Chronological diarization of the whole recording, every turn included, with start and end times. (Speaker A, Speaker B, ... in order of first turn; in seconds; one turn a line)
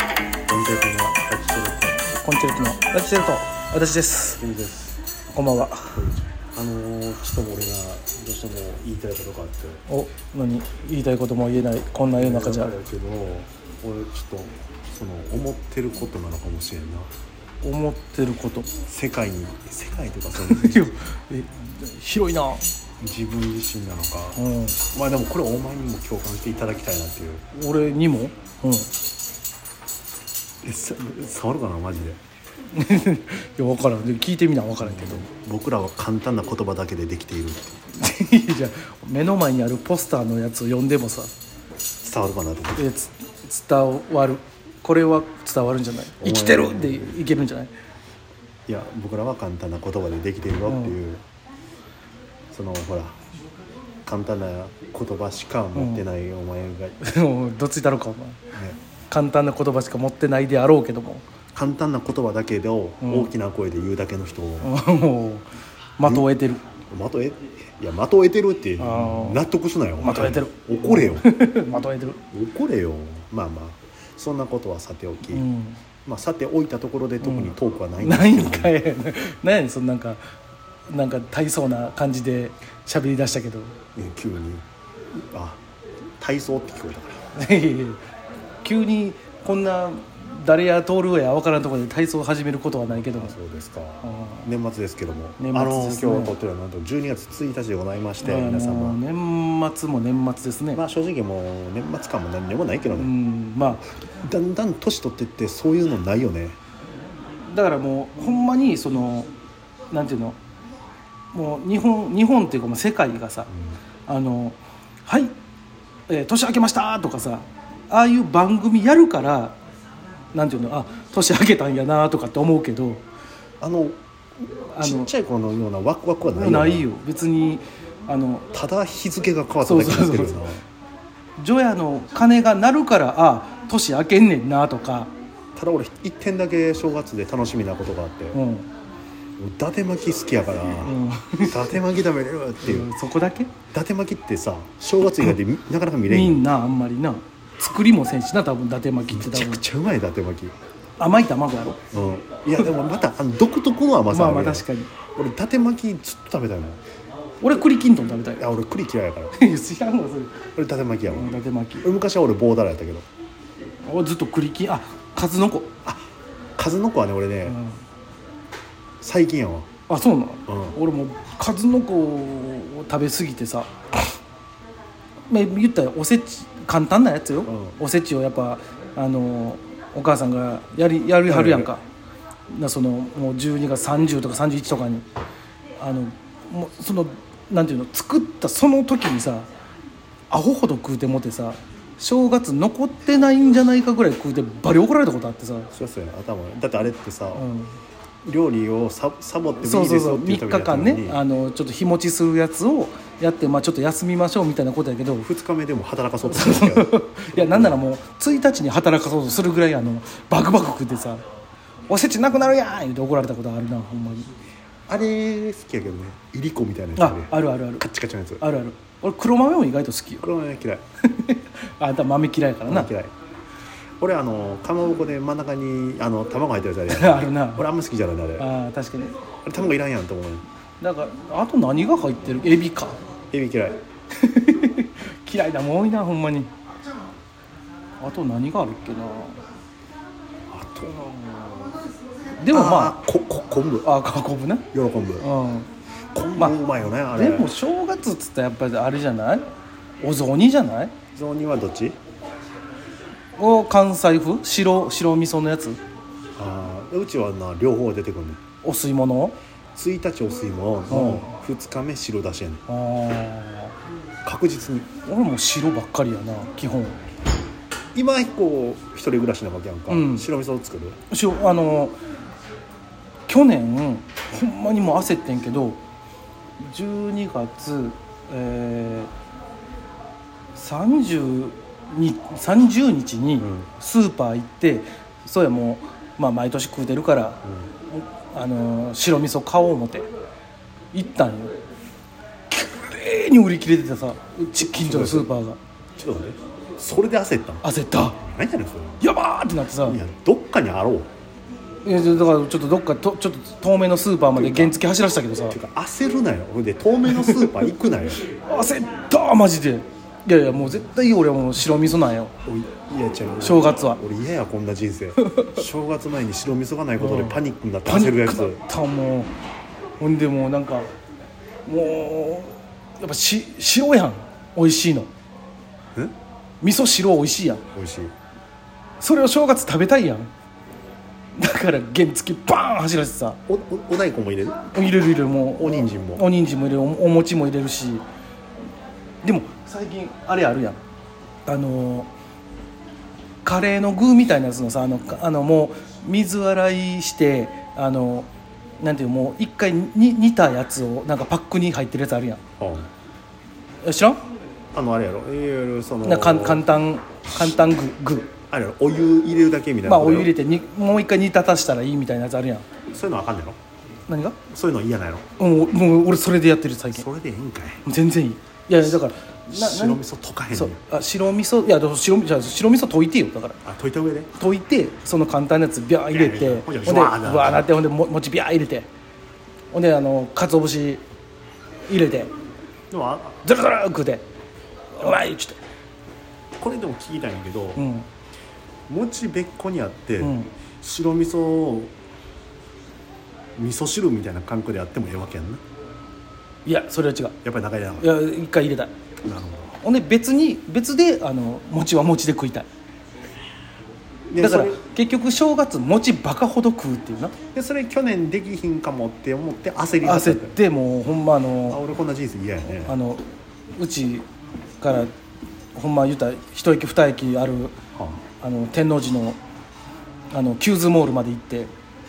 Speaker A: 0.5-2.0
Speaker B: 2.0-4.4
Speaker A: 4.4-5.0
Speaker B: 5.3-6.0
Speaker A: 5.9-9.8
Speaker B: 9.9-12.7
Speaker A: 12.1-17.1
Speaker B: 17.6-18.7
Speaker A: 18.9-20.9
Speaker B: 20.4-22.7
Speaker A: 23.0-27.4
Speaker B: 24.4-24.8
Speaker B: 27.5-28.9
Speaker A: 30.6-32.2
Speaker B: 32.7-35.2
Speaker A: 34.8-37.8
Speaker B: 37.9-41.3
Speaker A: 42.0-42.9
Speaker B: 42.8-47.7
Speaker A: 46.2-47.2
Speaker A: 48.7-51.2
Speaker B: 50.7-51.0
Speaker A: 52.5-53.2
Speaker A: 54.0-57.0
Speaker B: 55.8-56.0
Speaker B: 57.0-58.4
Speaker B: 59.1-61.2
Speaker A: 61.5-64.7
Speaker B: 63.0-63.3
Speaker B: 64.6-65.5
Speaker B: 66.0-66.6
Speaker A: 66.0-66.3
Speaker A: 66.9-71.3
Speaker B: 68.8-69.4
Speaker B: 70.0-72.2
Speaker A: 72.3-75.5
Speaker B: 75.3-75.8
Speaker A: 76.0-78.7
Speaker B: 77.2-80.2
Speaker B: 80.9-83.8
Speaker A: 83.9-85.6
Speaker A: 86.2-87.2
Speaker B: 87.3-88.0
Speaker B: 88.6-93.3
Speaker A: 92.9-99.0
Speaker B: 94.0-94.5
Speaker B: 95.4-96.3
Speaker B: 98.2-100.8
Speaker A: 100.7-103.1
Speaker B: 103.0-103.8
Speaker A: 104.1-106.6
Speaker B: 107.5-109.3
Speaker B: 109.9-110.4
Speaker B: 111.3-113.5
Speaker B: 114.1-115.3
Speaker B: 116.1-119.5
Speaker B: 120.3-123.0
Speaker A: 123.6-124.0
Speaker B: 124.7-125.1
Speaker A: 124.8-126.9
Speaker B: 126.3-128.5
Speaker A: 128.5-130.6
Speaker B: 129.6-130.4
Speaker B: 131.4-135.1
Speaker A: 135.5-138.4
Speaker B: 138.3-138.7
Speaker A: 139.4-142.9
Speaker B: 140.8-141.8
Speaker B: 142.6-143.5
Speaker A: 143.7-146.4
Speaker B: 146.1-149.6
Speaker A: 149.1-150.5
Speaker B: 151.0-151.8
Speaker A: 151.9-156.8
Speaker B: 154.1-154.9
Speaker B: 157.4-158.5
Speaker A: 158.4-159.3
Speaker B: 159.3-160.4
Speaker A: 160.6-163.1
Speaker B: 161.1-161.9
Speaker B: 163.8-165.7
Speaker A: 166.6-167.6
Speaker B: 167.4-167.8
Speaker A: 169.0-169.7
Speaker B: 169.9-173.7
Speaker A: 170.5-170.8
Speaker B: 175.3-181.8
Speaker A: 177.4-177.8
Speaker A: 181.3-181.7
Speaker B: 182.5-185.0
Speaker B: 185.8-189.5
Speaker B: 190.3-195.7
Speaker A: 195.7-197.4
Speaker B: 197.3-197.7
Speaker A: 198.2-201.2
Speaker B: 199.6-205.3
Speaker A: 205.2-207.8
Speaker B: 206.3-211.2
Speaker B: 211.9-214.3
Speaker A: 214.9-218.4
Speaker B: 217.0-217.8
Speaker B: 218.4-220.2
Speaker A: 220.2-220.8
Speaker B: 221.1-222.9
Speaker A: 222.7-223.1
Speaker A: 224.0-228.5
Speaker B: 226.9-227.6
Speaker B: 228.4-229.2
Speaker A: 229.4-230.4
Speaker B: 230.8-233.0
Speaker A: 233.3-233.8
Speaker B: 234.1-236.5
Speaker B: 238.0-239.4
Speaker A: 240.5-241.8
Speaker B: 242.4-243.0
Speaker A: 242.5-243.9
Speaker B: 243.8-244.7
Speaker A: 244.7-245.3
Speaker B: 245.2-245.7
Speaker A: 246.1-247.5
Speaker B: 247.1-249.4
Speaker B: 250.0-250.9
Speaker A: 251.1-252.0
Speaker B: 253.4-255.8
Speaker A: 256.4-258.4
Speaker B: 258.6-259.4
Speaker A: 259.7-262.6
Speaker B: 260.9-261.3
Speaker B: 262.7-263.7
Speaker A: 264.2-264.9
Speaker B: 265.1-267.0
Speaker A: 267.9-271.0
Speaker B: 269.9-270.2
Speaker B: 271.1-271.9
Speaker B: 273.3-275.8
Speaker B: 276.6-279.1
Speaker B: 280.5-290.1
Speaker A: 283.4-283.7
Speaker B: 290.9-291.5
Speaker B: 292.5-295.6
Speaker A: 294.6-295.3
Speaker A: 295.9-297.6
Speaker B: 297.6-298.2
Speaker A: 298.2-299.0
Speaker B: 299.0-300.0
Speaker A: 299.8-301.1
Speaker B: 301.8-305.6
Speaker A: 304.3-304.8
Speaker A: 305.5-308.2
Speaker B: 307.1-307.7
Speaker B: 308.4-312.3
Speaker A: 312.4-318.6
Speaker B: 313.4-314.0
Speaker B: 315.2-315.6
Speaker B: 317.0-319.3
Speaker B: 320.0-320.9
Speaker B: 321.6-325.1
Speaker B: 326.6-327.6
Speaker A: 327.7-328.1
Speaker B: 329.0-330.3
Speaker B: 331.4-333.4
Speaker A: 333.5-334.6
Speaker B: 334.7-338.0
Speaker A: 335.6-336.3
Speaker B: 339.2-340.8
Speaker B: 341.4-342.1
Speaker B: 343.4-348.3
Speaker B: 348.8-352.4
Speaker A: 352.6-352.9
Speaker B: 353.8-354.2
Speaker A: 354.7-356.6
Speaker B: 356.0-358.3
Speaker A: 358.5-360.3
Speaker B: 359.8-362.7
Speaker A: 362.9-363.6
Speaker B: 364.1-364.4
Speaker A: 364.5-365.2
Speaker B: 365.4-367.1
Speaker A: 366.9-367.8
Speaker B: 367.8-370.0
Speaker A: 369.5-370.8
Speaker B: 370.5-373.6
Speaker A: 373.6-374.3
Speaker B: 374.4-378.9
Speaker A: 376.1-377.7
Speaker B: 379.7-381.0
Speaker B: 381.9-382.3
Speaker A: 382.9-383.4
Speaker B: 383.4-384.2
Speaker B: 384.9-385.6
Speaker A: 386.6-387.8
Speaker B: 387.8-388.1
Speaker A: 388.9-391.9
Speaker B: 390.2-390.5
Speaker A: 393.6-395.6
Speaker B: 396.6-397.4
Speaker A: 397.4-398.1
Speaker B: 398.0-398.9
Speaker A: 399.2-399.8
Speaker B: 399.8-402.7
Speaker A: 404.3-404.8
Speaker B: 404.4-407.3
Speaker A: 407.5-410.6
Speaker B: 410.0-411.8
Speaker A: 411.7-413.0
Speaker B: 412.9-413.2
Speaker B: 413.8-414.2
Speaker B: 414.8-415.1
Speaker B: 415.7-417.7
Speaker A: 417.9-418.2
Speaker B: 418.4-419.4
Speaker B: 420.3-421.7